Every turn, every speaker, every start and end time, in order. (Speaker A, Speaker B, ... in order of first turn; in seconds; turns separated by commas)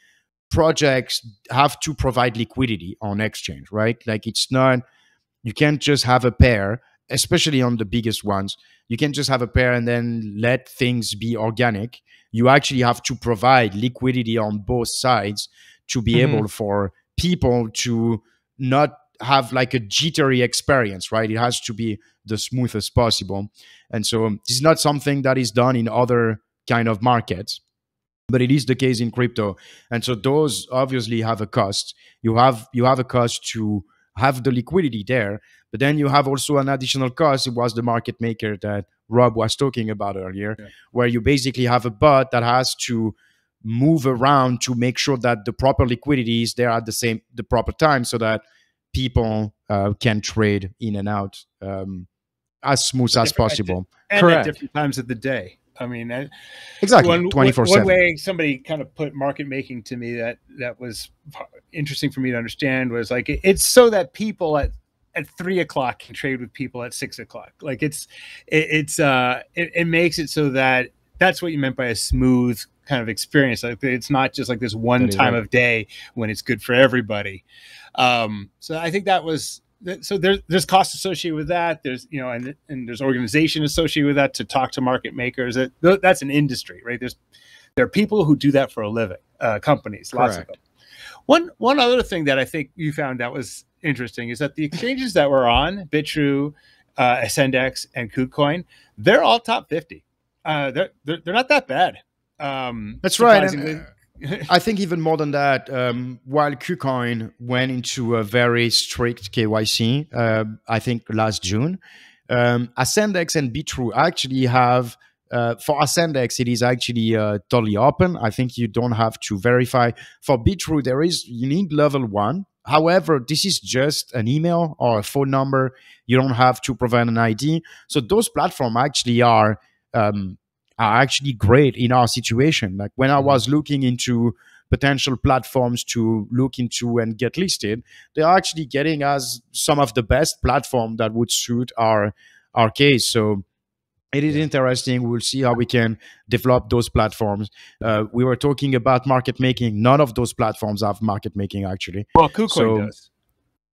Speaker A: 0.5-4.8, Speaker A: 5.4-27.6, Speaker B: 16.1-16.4, Speaker A: 28.3-48.4, Speaker A: 48.9-52.1, Speaker A: 52.6-54.5, Speaker B: 53.1-56.3, Speaker A: 56.8-57.9, Speaker B: 57.0-77.4, Speaker A: 75.0-75.4, Speaker B: 78.0-87.2, Speaker B: 87.8-90.6, Speaker A: 90.1-90.5, Speaker B: 91.3-104.5, Speaker A: 103.0-103.8, Speaker A: 104.5-143.4, Speaker A: 144.1-152.9, Speaker B: 152.2-153.1